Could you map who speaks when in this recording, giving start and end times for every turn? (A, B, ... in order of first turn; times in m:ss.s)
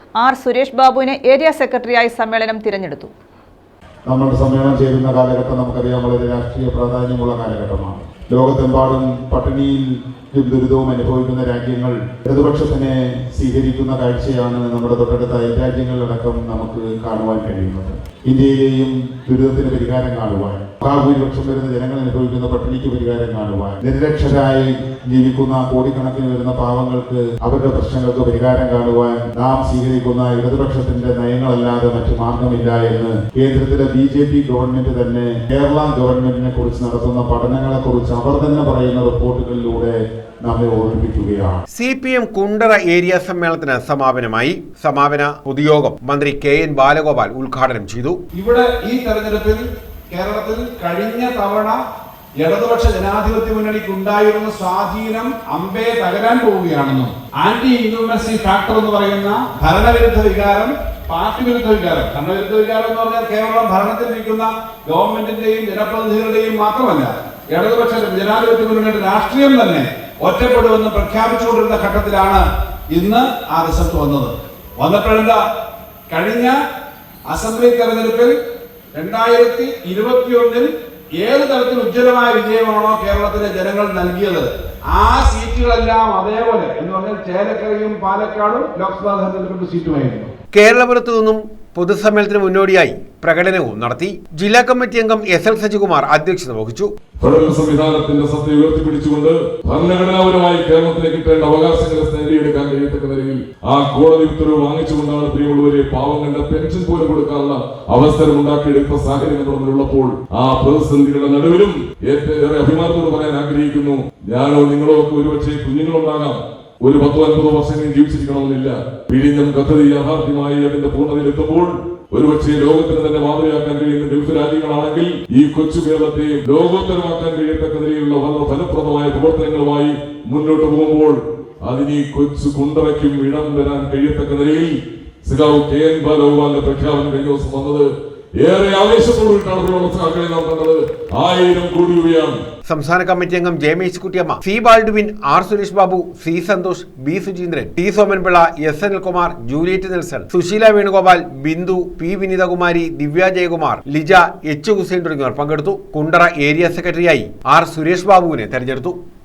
0:00.2-0:03.1 A
0:04.1-0:41.6 B
0:41.7-0:48.2 C
0:48.3-0:51.8 D
0:52.4-1:15.4 D
1:16.1-1:16.6 D
1:17.2-1:18.3 D
1:18.9-1:20.7 D
1:21.2-1:30.3 D
1:30.5-1:36.9 C
1:37.2-2:14.7 E
2:15.2-2:17.8 E
2:18.4-2:22.4 E
2:22.6-2:39.0 C